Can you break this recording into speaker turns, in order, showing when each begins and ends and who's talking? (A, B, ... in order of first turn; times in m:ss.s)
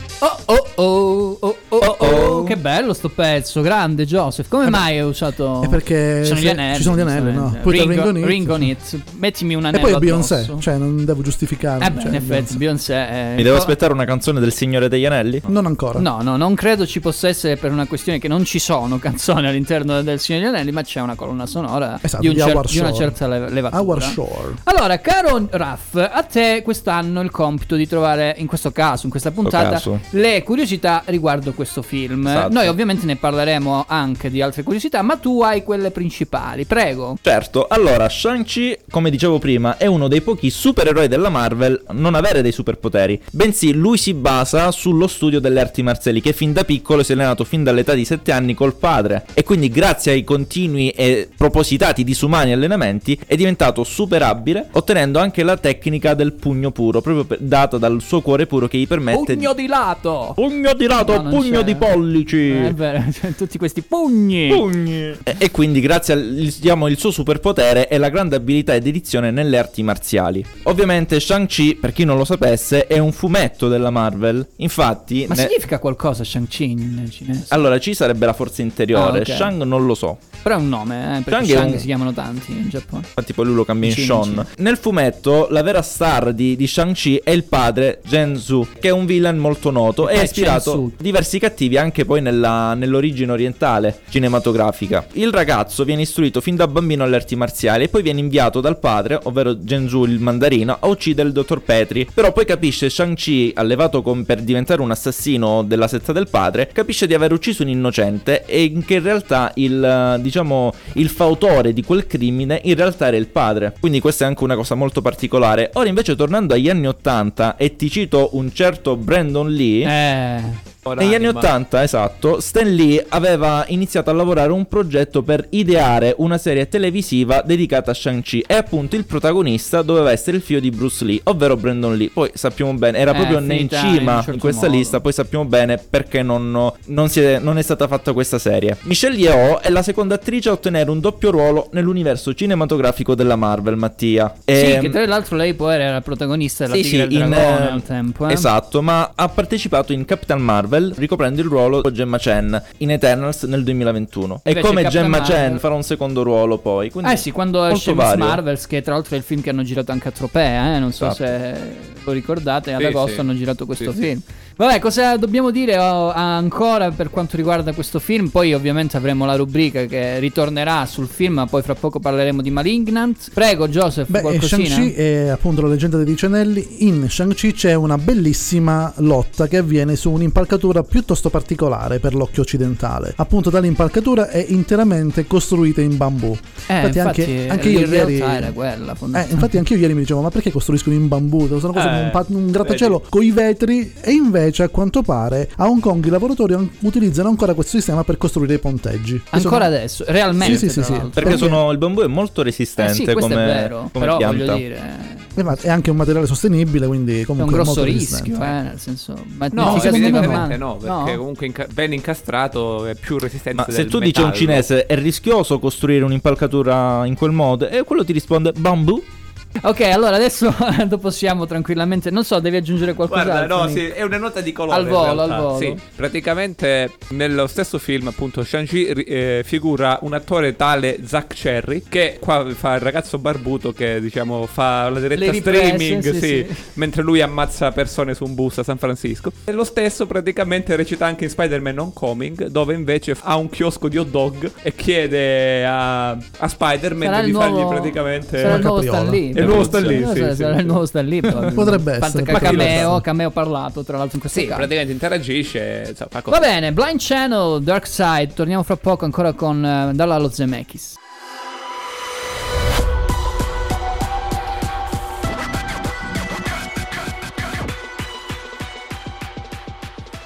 0:00.2-0:10.6 A
0:01.8-0:02.6 B
0:05.6-0:08.7 C
0:09.7-0:12.6 C
0:11.8-0:13.7 A
0:13.4-0:15.5 B
0:15.5-0:16.1 C
0:16.0-0:37.2 A
0:22.0-0:23.2 C
0:23.7-0:24.6 C
0:29.4-0:30.0 B
0:32.3-0:32.7 B
0:37.2-0:59.5 B
0:59.1-1:00.4 A
1:00.4-1:02.8 B
1:01.0-1:01.9 A
1:02.5-1:04.6 A
1:04.5-1:15.5 B
1:15.3-1:17.5 A
1:17.5-1:20.2 B
1:18.9-1:19.6 A
1:20.4-1:23.1 A
1:21.3-1:21.8 B
1:23.2-1:59.9 B
1:23.8-1:24.5 A
1:30.0-1:31.0 A
1:59.8-2:00.6 A
2:00.8-2:01.5 D
2:01.0-2:25.0 B
2:13.1-2:15.0 A
2:24.6-2:28.5 A
2:26.7-2:38.4 B
2:34.5-2:35.6 A
2:37.0-2:54.9 A
2:42.8-2:43.2 D
2:54.1-3:08.5 C
3:06.7-3:09.5 A
3:09.1-3:19.7 C
3:11.7-3:13.0 D
3:19.3-3:21.6 A
3:20.4-3:21.6 C
3:21.2-3:24.6 B
3:22.8-3:25.6 A
3:25.4-3:28.5 C
3:27.4-3:31.2 A
3:29.5-3:34.7 D
3:29.6-3:30.5 C
3:33.6-3:39.1 B
3:39.6-3:43.9 A
3:43.1-4:08.6 D
3:44.7-3:45.8 A
3:55.2-3:56.6 A
4:07.0-4:14.7 A
4:08.4-4:10.0 C
4:09.4-4:10.8 D
4:11.4-4:13.0 C
4:12.3-4:12.9 D
4:14.3-4:16.5 D
4:16.3-4:21.0 A